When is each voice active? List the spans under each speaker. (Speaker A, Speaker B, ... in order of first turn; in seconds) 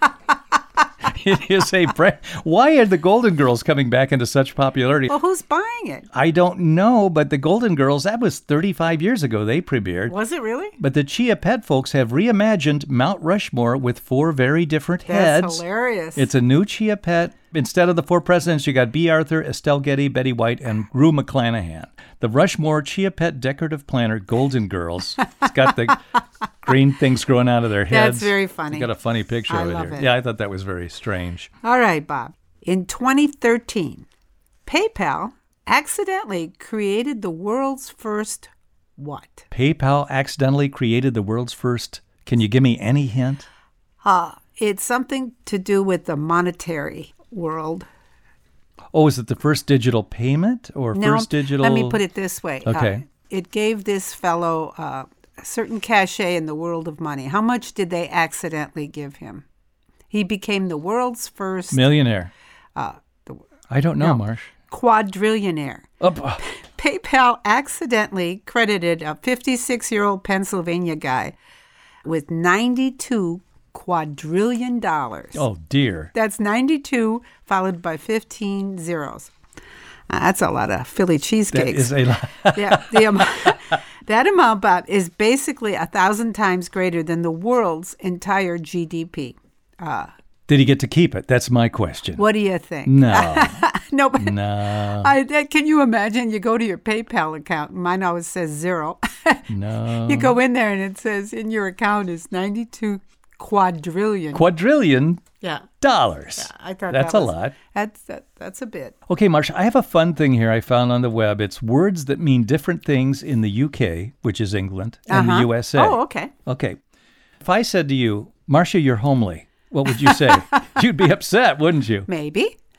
Speaker A: 1.0-5.2, 6.1-10.2, 10.8-15.6, 16.2-26.1, 26.6-31.5, 39.5-43.5, 48.9-52.0, 52.6-53.0, 61.7-62.3, 63.7-64.5, 66.0-66.4, 75.3-76.1, 81.5-83.8, 90.5-92.2, 92.8-95.1, 99.5-100.4, 104.3-105.2, 105.8-107.5, 109.1-116.8, 117.4-122.1
Speaker B: 5.1-6.1, 10.1-10.8, 15.1-16.3, 27.9-28.9, 29.5-30.1, 31.6-34.1, 34.7-39.5, 44.0-47.9, 51.0-59.5, 60.1-61.8, 62.8-63.4, 64.0-65.9, 66.4-71.3, 72.0-75.4, 76.1-79.3, 80.1-90.1, 92.2-99.5, 100.0-104.5, 105.4-105.7, 106.4-109.0, 115.1-116.3, 120.1-120.3, 122.1-122.6